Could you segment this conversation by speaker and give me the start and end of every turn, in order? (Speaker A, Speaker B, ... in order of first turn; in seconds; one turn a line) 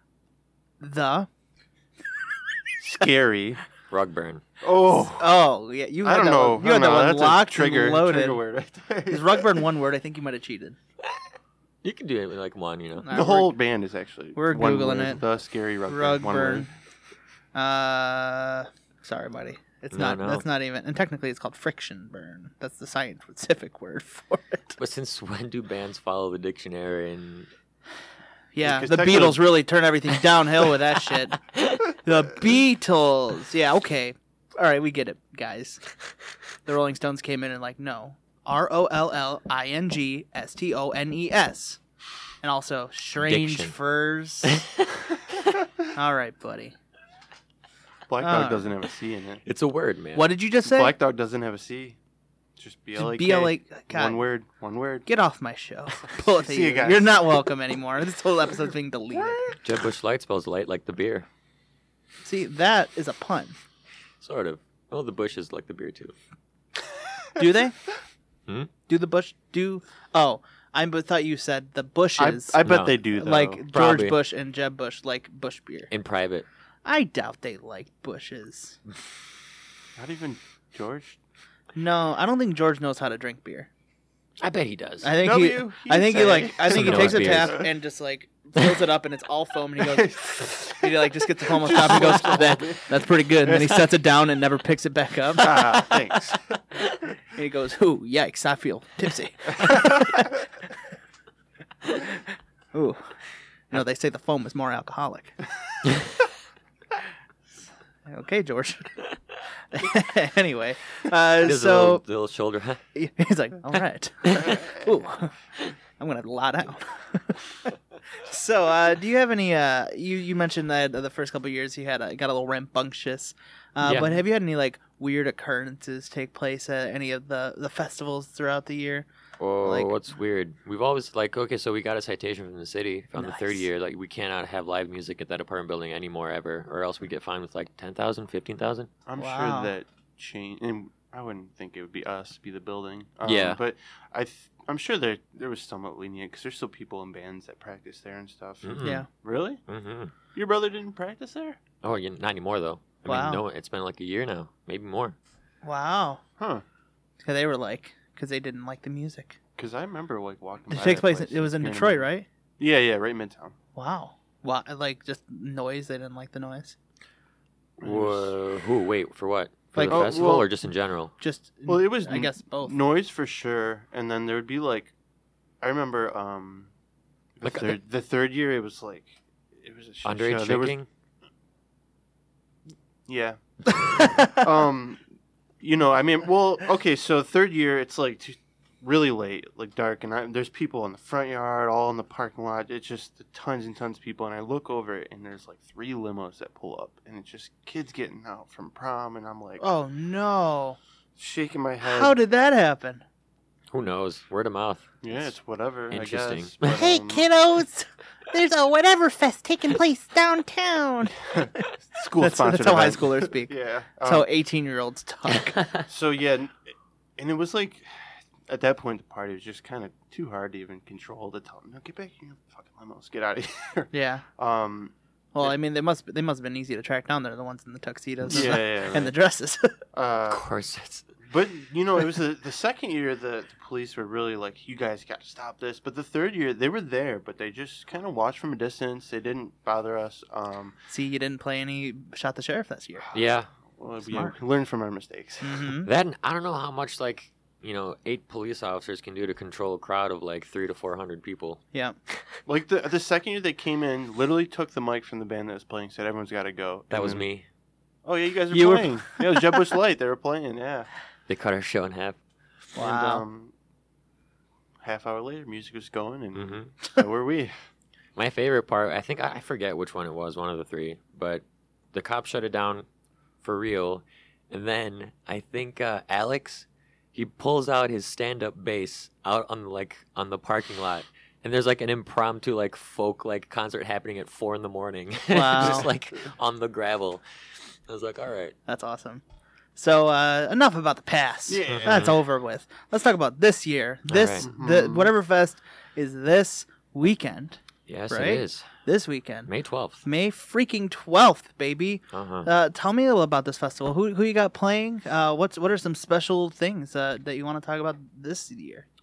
Speaker A: 0.8-1.3
Speaker B: 2.8-3.6
Speaker C: 3.9-4.4
Speaker B: 4.6-5.4
Speaker A: 5.0-8.4
Speaker B: 6.0-9.6
Speaker A: 9.1-10.8
Speaker C: 11.8-13.1
Speaker A: 13.0-13.6
Speaker B: 13.1-16.7
Speaker A: 14.3-15.2
Speaker A: 15.9-16.7
Speaker A: 17.6-24.8
Speaker C: 19.9-20.4
Speaker C: 24.8-27.5
Speaker A: 28.5-35.8
Speaker B: 28.6-29.6
Speaker A: 36.7-41.8
Speaker A: 42.4-44.6
Speaker C: 43.2-43.8
Speaker C: 44.5-44.9
Speaker A: 45.9-46.8
Speaker B: 48.1-49.4
Speaker A: 48.2-48.7
Speaker C: 49.5-50.4
Speaker A: 50.1-51.0
Speaker B: 50.6-52.0
Speaker B: 52.6-55.1
Speaker A: 53.0-54.2
Speaker A: 55.1-59.5
Speaker B: 56.2-57.5
Speaker C: 59.6-61.3
Speaker A: 62.2-63.6
Speaker C: 64.2-66.1
Speaker A: 67.4-67.8
Speaker A: 68.9-72.6
Speaker B: 72.2-73.6
Speaker C: 72.6-73.0
Speaker A: 73.1-75.9
Speaker C: 73.7-74.2
Speaker C: 75.9-76.5
Speaker A: 76.8-78.8
Speaker B: 80.0-81.2
Speaker A: 81.8-83.7
Speaker C: 84.4-85.2
Speaker A: 85.0-95.9
Speaker B: 85.2-87.6
Speaker C: 86.7-87.7
Speaker B: 89.8-93.9
Speaker B: 95.4-96.5
Speaker A: 97.3-100.3
Speaker A: 102.7-103.0
Speaker A: 103.7-105.4
Speaker A: 108.1-109.0
Speaker A: 109.7-112.0
Speaker C: 111.4-112.8
Speaker A: 113.0-115.3
Speaker B: 114.3-114.9
Speaker A: 116.0-129.1
Speaker C: 123.8-124.2
Speaker C: 129.4-138.9
Speaker A: 129.6-130.0
Speaker A: 133.2-133.7
Speaker B: 139.1-149.6
Speaker A: 139.2-139.7
Speaker C: 143.2-143.6
Speaker C: 148.6-149.1
Speaker C: 149.7-150.1
Speaker B: 150.3-151.6
Speaker C: 151.8-155.2
Speaker A: 153.1-153.4
Speaker A: 155.6-156.2
Speaker B: 156.4-156.6
Speaker A: 157.2-159.4
Speaker B: 159.6-163.6
Speaker A: 160.7-162.3
Speaker A: 163.8-166.8
Speaker B: 167.8-168.3
Speaker C: 167.8-171.1
Speaker A: 169.7-170.3
Speaker B: 169.8-170.5
Speaker A: 171.2-172.8
Speaker B: 171.7-174.9
Speaker B: 175.6-176.7
Speaker B: 177.4-180.8
Speaker C: 177.4-177.8
Speaker C: 180.0-180.9
Speaker B: 183.1-185.0
Speaker B: 185.6-199.7
Speaker A: 199.6-200.8
Speaker B: 201.2-202.2
Speaker A: 201.8-203.0
Speaker C: 203.7-205.2
Speaker B: 205.0-207.3
Speaker C: 205.9-206.8
Speaker A: 206.7-215.7
Speaker B: 211.3-214.3
Speaker B: 215.9-225.6
Speaker A: 223.9-224.2
Speaker A: 225.3-229.8
Speaker B: 228.3-229.2
Speaker B: 229.9-230.5
Speaker C: 230.3-231.1
Speaker B: 231.3-240.8
Speaker A: 240.9-243.1
Speaker B: 243.1-245.7
Speaker C: 243.1-243.5
Speaker A: 244.1-244.3
Speaker A: 245.4-245.9
Speaker C: 245.8-251.6
Speaker B: 252.5-257.3
Speaker C: 256.9-257.5
Speaker B: 258.1-260.9
Speaker A: 258.5-259.5
Speaker C: 261.3-262.2
Speaker A: 262.8-263.2
Speaker B: 262.8-263.5
Speaker B: 264.8-267.6
Speaker C: 266.4-266.7
Speaker C: 268.2-272.9
Speaker C: 273.4-287.2
Speaker A: 285.3-285.9
Speaker C: 287.9-288.6
Speaker A: 288.7-289.2
Speaker A: 289.8-299.5
Speaker B: 291.5-292.1
Speaker C: 291.7-292.2
Speaker C: 294.1-294.5
Speaker B: 294.4-295.1
Speaker C: 297.9-298.7
Speaker C: 299.5-300.0
Speaker A: 300.0-308.9
Speaker C: 302.1-302.5